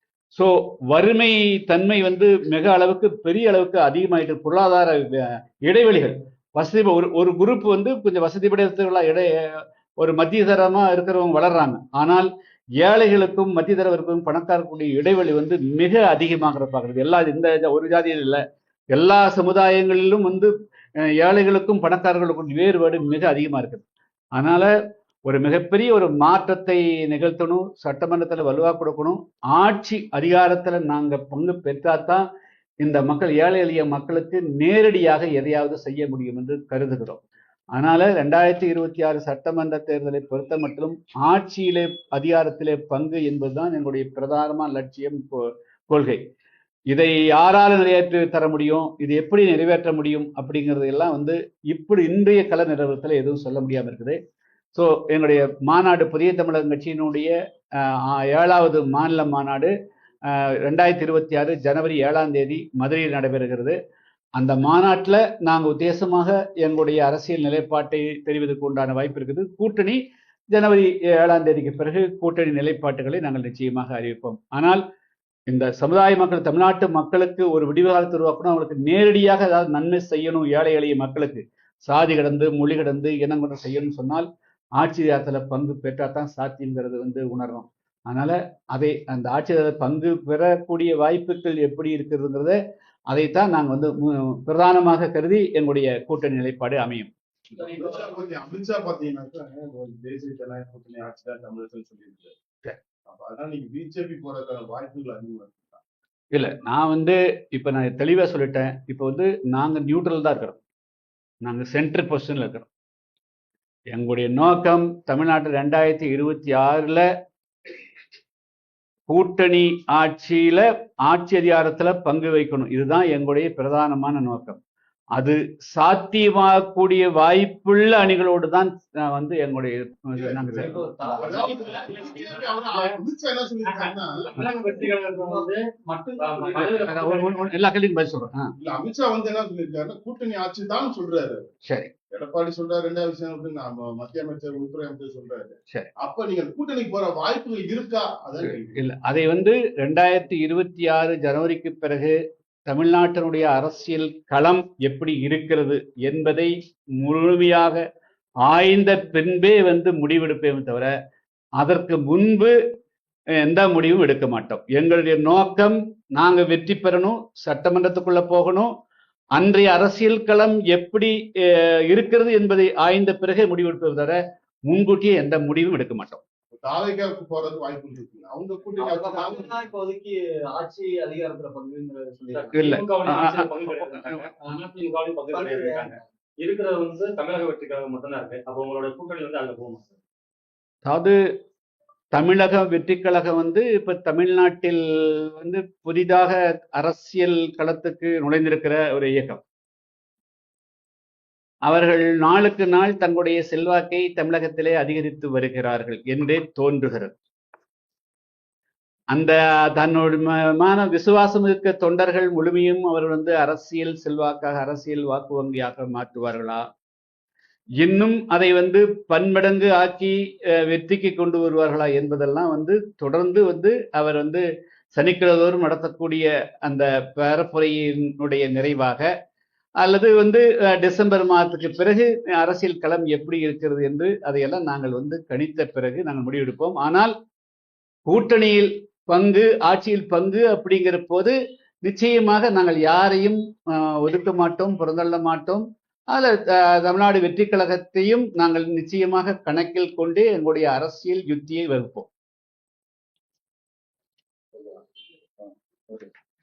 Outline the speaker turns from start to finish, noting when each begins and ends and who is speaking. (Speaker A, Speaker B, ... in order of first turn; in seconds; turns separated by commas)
Speaker A: 0.3-12.3, Speaker A: 12.8-18.4, Speaker A: 18.9-24.7, Speaker A: 25.3-32.2, Speaker A: 32.8-37.2, Speaker A: 37.8-46.2, Speaker A: 46.9-54.2, Speaker A: 54.8-57.3, Speaker A: 57.9-59.7, Speaker A: 60.3-63.8, Speaker A: 64.4-70.0, Speaker A: 70.5-74.8, Speaker A: 75.5-84.3, Speaker A: 84.8-92.6, Speaker A: 93.1-97.1, Speaker B: 97.6-102.4, Speaker B: 103.0-105.8, Speaker A: 106.3-110.6, Speaker A: 111.4-112.7, Speaker A: 113.9-117.1, Speaker A: 119.1-124.6, Speaker A: 125.2-130.8, Speaker B: 130.2-134.5, Speaker C: 130.6-132.3, Speaker D: 131.7-133.0, Speaker D: 133.6-135.7, Speaker C: 135.2-136.7, Speaker D: 136.2-137.4, Speaker A: 136.7-138.5, Speaker B: 138.6-141.5, Speaker A: 141.7-141.9, Speaker B: 142.1-148.7, Speaker A: 148.4-152.2, Speaker A: 152.7-157.8, Speaker A: 158.4-160.9, Speaker A: 161.6-162.5, Speaker A: 163.4-168.7, Speaker A: 169.3-176.2, Speaker B: 176.6-179.5, Speaker C: 178.8-182.6, Speaker D: 182.3-189.9, Speaker A: 182.5-184.2, Speaker C: 185.3-185.9, Speaker A: 190.8-191.2, Speaker A: 192.1-199.4, Speaker A: 201.7-207.2, Speaker A: 209.1-216.7, Speaker A: 217.8-229.1, Speaker A: 229.8-237.1, Speaker A: 238.1-252.1